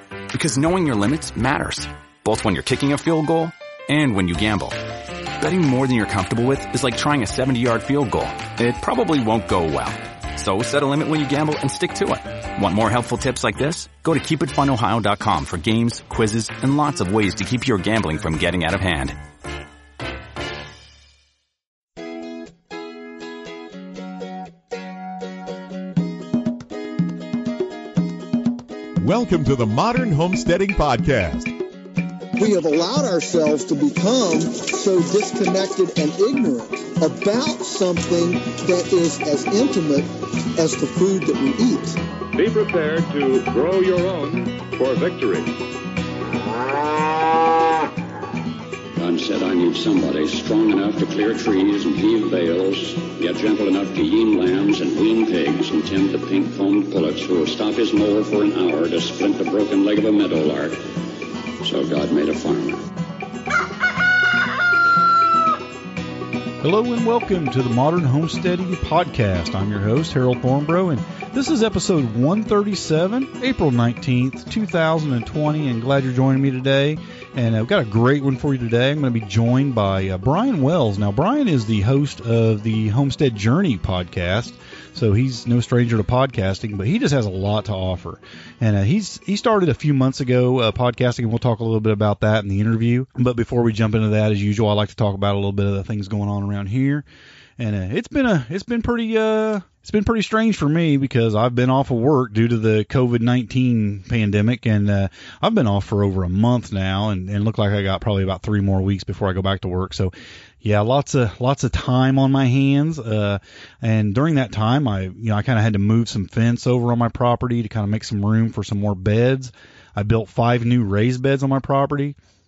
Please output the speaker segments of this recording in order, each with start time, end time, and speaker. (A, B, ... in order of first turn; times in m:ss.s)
0:00.3-0:04.8 A
0:05.4-0:19.2 A
0:29.0-0:31.6 B
0:32.4-0:42.0 C
0:42.3-0:45.5 D
0:49.0-1:00.8 E
1:01.6-1:02.8 E
1:06.6-1:37.0 F
1:37.6-2:02.2 F